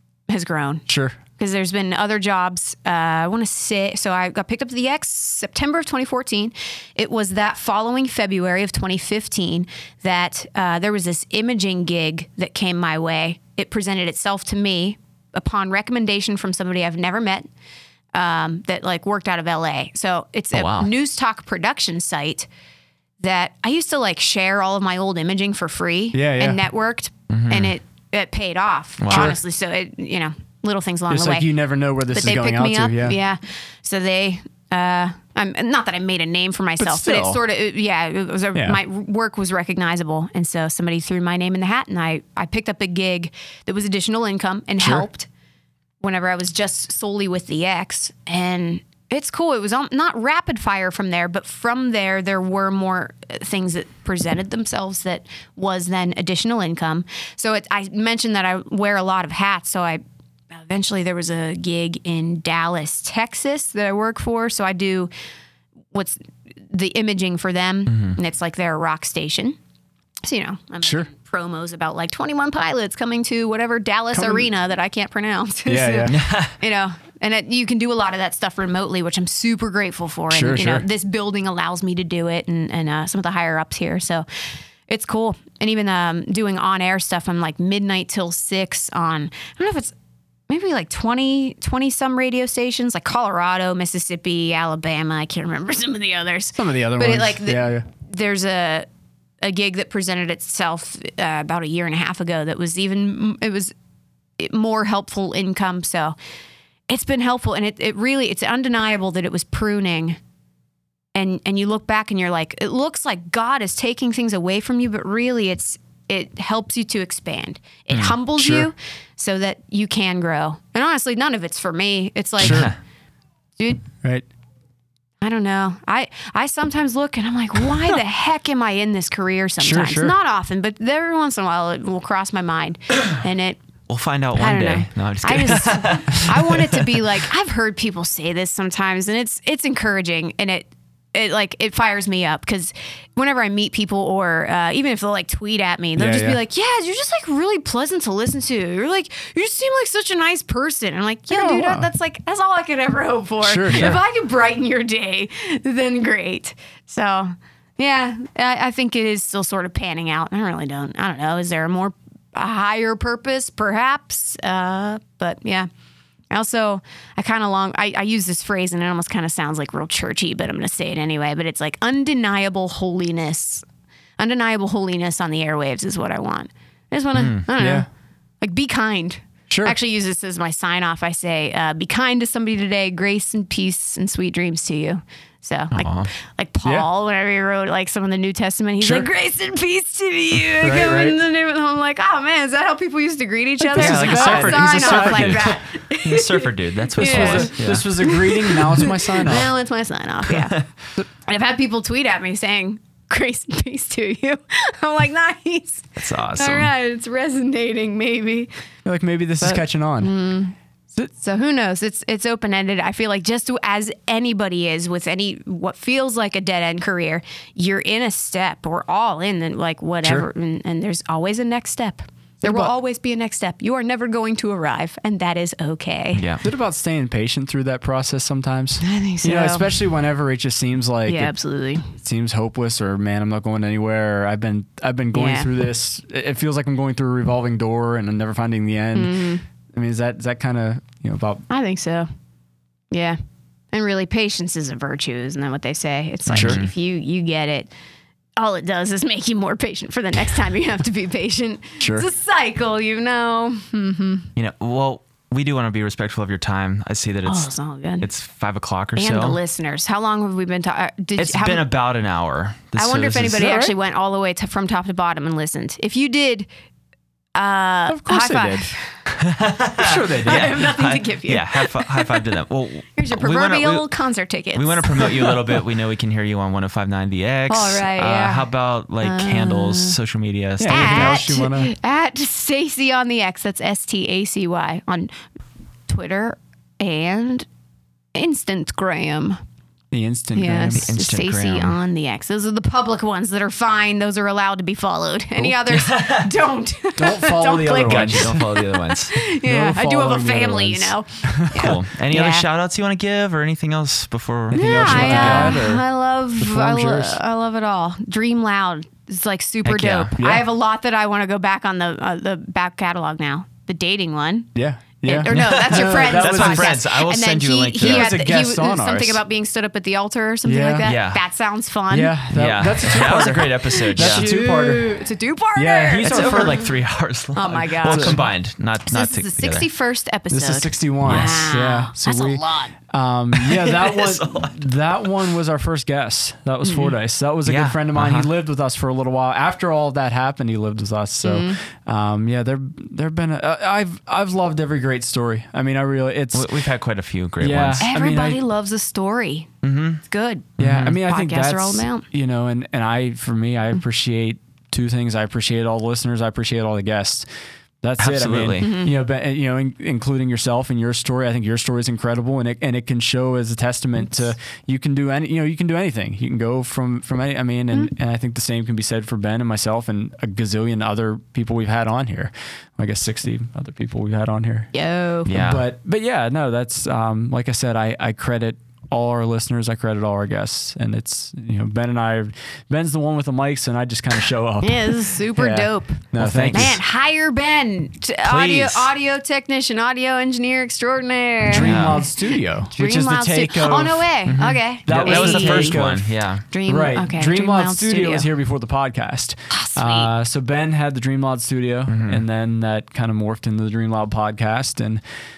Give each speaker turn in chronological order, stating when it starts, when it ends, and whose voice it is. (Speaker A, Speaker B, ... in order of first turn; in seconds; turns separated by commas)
Speaker A: 0.3-0.8, Speaker B: 0.9-1.2, Speaker A: 1.4-17.5, Speaker A: 18.1-22.5, Speaker C: 20.5-20.9, Speaker A: 23.2-31.5, Speaker B: 26.1-26.6, Speaker C: 27.3-27.8, Speaker C: 29.0-29.4, Speaker B: 29.1-29.4, Speaker B: 31.1-33.2, Speaker A: 32.1-45.3, Speaker B: 36.8-37.4, Speaker B: 38.5-38.8, Speaker B: 44.8-45.1, Speaker A: 46.0-60.0, Speaker A: 60.5-65.1, Speaker A: 65.9-66.2, Speaker A: 66.7-69.6, Speaker C: 67.9-68.2, Speaker A: 70.2-84.3, Speaker B: 70.8-71.1, Speaker B: 74.1-74.5, Speaker B: 75.7-76.2, Speaker C: 76.1-76.6, Speaker B: 80.3-80.9, Speaker A: 84.9-89.9, Speaker A: 90.5-98.9, Speaker B: 96.6-97.8, Speaker A: 99.4-103.7, Speaker A: 104.4-106.2, Speaker A: 106.9-110.2, Speaker A: 111.2-122.7, Speaker B: 118.4-118.7, Speaker B: 122.4-122.7, Speaker C: 122.4-122.8, Speaker A: 123.6-123.8, Speaker A: 125.2-133.6, Speaker B: 129.6-130.2, Speaker C: 133.9-136.9, Speaker A: 134.4-165.7, Speaker B: 146.0-146.4, Speaker B: 151.3-151.9, Speaker B: 153.4-154.0, Speaker A: 166.3-173.7, Speaker A: 174.2-177.9, Speaker C: 177.2-177.5, Speaker B: 177.6-177.9, Speaker A: 178.4-200.7, Speaker B: 179.5-179.8, Speaker C: 185.7-186.1, Speaker B: 188.8-189.1, Speaker C: 190.3-190.6, Speaker B: 190.6-191.2, Speaker B: 193.6-195.5, Speaker C: 193.8-197.9, Speaker B: 197.0-199.5, Speaker A: 201.3-208.5, Speaker C: 206.0-206.7, Speaker B: 208.9-210.1, Speaker A: 209.4-210.6, Speaker A: 211.1-226.3, Speaker B: 222.4-222.7, Speaker C: 226.2-226.4, Speaker B: 226.4-231.3, Speaker A: 228.8-229.7, Speaker A: 231.1-231.9, Speaker B: 231.9-241.5, Speaker A: 235.1-235.5, Speaker A: 238.9-239.4, Speaker A: 241.5-242.1, Speaker A: 242.9-243.2, Speaker A: 243.7-247.7, Speaker C: 246.3-246.7, Speaker B: 246.3-246.6, Speaker A: 248.4-254.3, Speaker B: 251.8-252.1, Speaker C: 254.4-259.4, Speaker A: 257.2-258.1, Speaker A: 259.0-261.6, Speaker C: 261.2-263.6, Speaker A: 262.8-266.5, Speaker B: 263.4-263.7, Speaker A: 267.4-268.8, Speaker B: 267.9-268.7, Speaker C: 269.1-273.9, Speaker B: 269.8-270.7, Speaker A: 270.2-272.3, Speaker A: 273.0-275.4, Speaker C: 274.6-281.3, Speaker A: 277.5-278.5, Speaker A: 279.0-280.0, Speaker B: 280.6-281.7, Speaker A: 280.7-285.2, Speaker A: 285.9-287.5, Speaker A: 288.1-289.4, Speaker B: 289.9-290.9, Speaker A: 290.4-302.5, Speaker C: 290.7-291.8, Speaker C: 295.7-296.3, Speaker B: 297.0-298.6, Speaker C: 297.8-299.2, Speaker B: 299.4-301.8, Speaker C: 301.5-305.6, Speaker B: 304.5-305.9, Speaker A: 304.5-314.5, Speaker B: 306.4-307.2, Speaker C: 309.6-310.1, Speaker B: 310.2-310.5, Speaker B: 314.6-316.8, Speaker A: 315.0-322.2, Speaker C: 315.3-318.1, Speaker B: 317.8-319.2, Speaker B: 320.4-320.9, Speaker C: 320.8-321.2, Speaker B: 321.9-325.0, Speaker C: 322.3-324.4, Speaker A: 322.9-326.7, Speaker B: 325.6-326.7, Speaker C: 326.0-329.7, Speaker A: 327.4-328.2, Speaker B: 327.9-328.2, Speaker A: 328.9-332.7, Speaker B: 330.3-346.7, Speaker C: 331.1-331.4, Speaker C: 333.3-334.7, Speaker A: 336.6-336.9, Speaker C: 337.5-338.3, Speaker A: 341.2-341.6, Speaker C: 346.3-347.9, Speaker B: 347.4-348.4, Speaker A: 347.8-349.5, Speaker C: 349.6-350.0, Speaker A: 350.1-352.1, Speaker C: 350.6-351.0, Speaker B: 350.6-357.3, Speaker B: 357.8-374.7, Speaker C: 358.0-358.7, Speaker A: 358.6-359.0, Speaker A: 374.7-375.3, Speaker C: 375.2-375.6, Speaker B: 375.3-386.8, Speaker A: 384.6-395.8, Speaker C: 386.2-386.8, Speaker C: 388.2-388.9, Speaker B: 391.5-394.1, Speaker C: 391.5-392.0, Speaker C: 394.3-396.5, Speaker B: 394.9-396.1, Speaker A: 396.5-398.3, Speaker B: 396.7-405.0, Speaker A: 399.5-400.1, Speaker C: 401.9-402.2